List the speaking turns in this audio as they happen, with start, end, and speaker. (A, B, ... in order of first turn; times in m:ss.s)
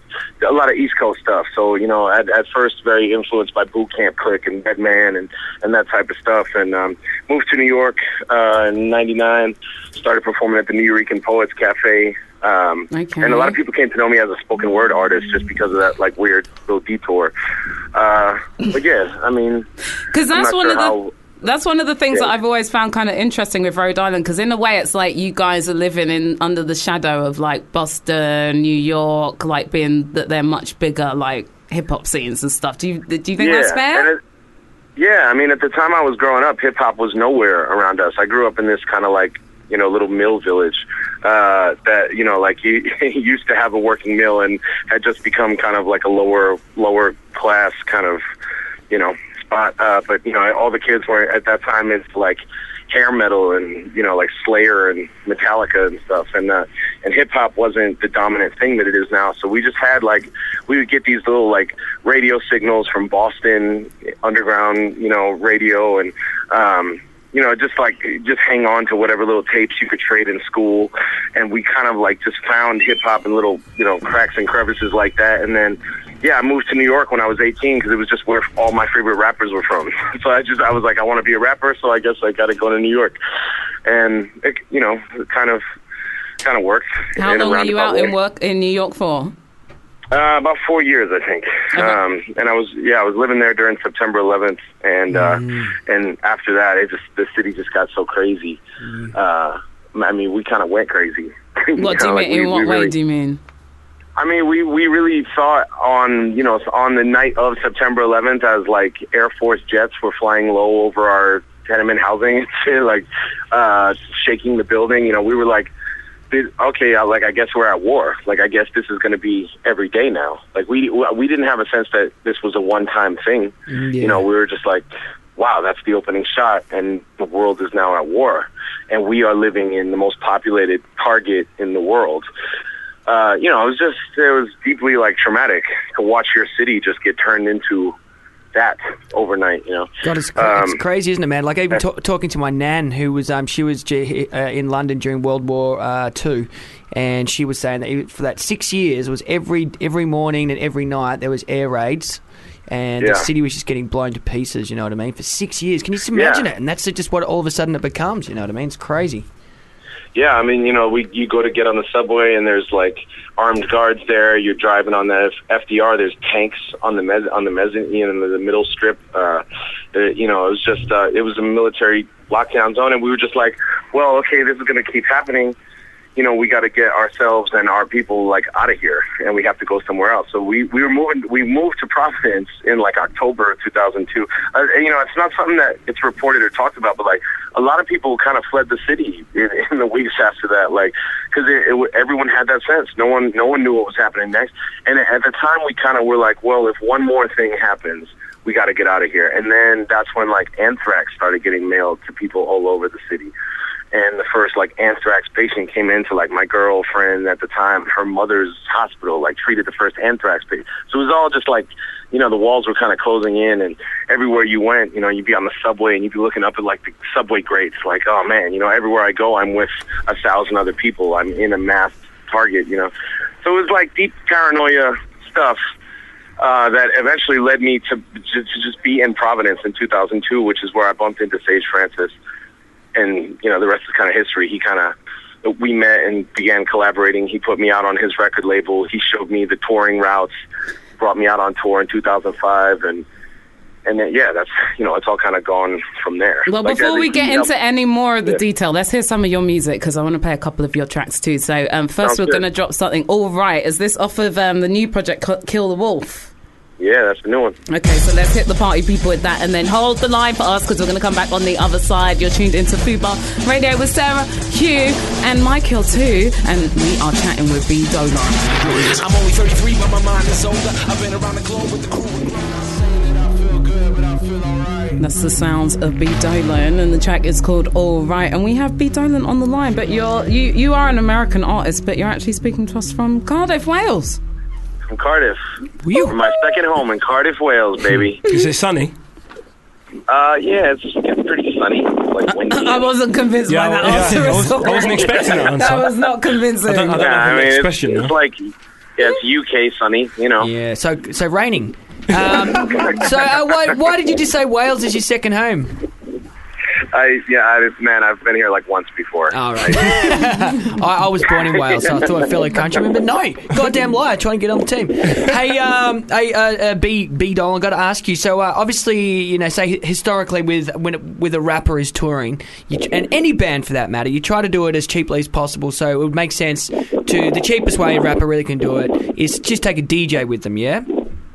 0:00.4-0:17.3 A
0:12.9-0:13.6 B
0:17.9-0:19.7 A
0:20.1-0:34.1 B
0:20.3-0:21.1 A
0:33.4-0:34.2 A
0:35.0-0:48.2 A
0:48.9-1:23.2 A
1:23.8-1:25.6 A
1:26.4-1:28.1 A
1:27.2-1:29.3 B
1:30.1-1:38.6 A
1:35.1-1:35.7 C
1:38.8-1:39.1 C
1:39.1-1:42.9 A
1:41.7-1:43.4 B
1:44.2-1:55.7 A
1:56.3-2:12.3 A
2:03.7-2:04.2 C
2:13.1-2:18.0 A
2:18.5-2:20.8 A
2:20.0-2:39.2 C
2:33.0-2:33.3 A
2:36.1-2:36.4 A
2:40.1-2:55.6 A
2:56.2-3:23.3 A
3:23.9-3:42.9 A
3:43.4-3:45.6 A
3:46.4-3:52.1 A
3:52.9-4:00.3 A
4:01.0-4:03.0 A
4:03.8-4:07.5 A
4:06.4-4:16.3 B
4:12.0-4:12.4 A
4:16.8-4:17.6 A
4:17.7-4:28.9 B
4:28.6-4:35.0 D
4:35.0-4:44.2 B
4:44.9-4:45.4 A
4:45.8-4:46.2 C
4:45.9-4:48.2 A
4:48.2-4:48.9 E
4:50.1-4:52.9 A
4:52.3-4:57.0 B
4:53.5-4:55.9 E
4:53.9-4:54.2 C
4:55.0-4:55.4 A
4:56.6-4:58.1 E
4:56.9-5:00.5 A
5:00.4-5:05.9 C
5:06.9-5:10.2 A
5:09.3-5:31.1 C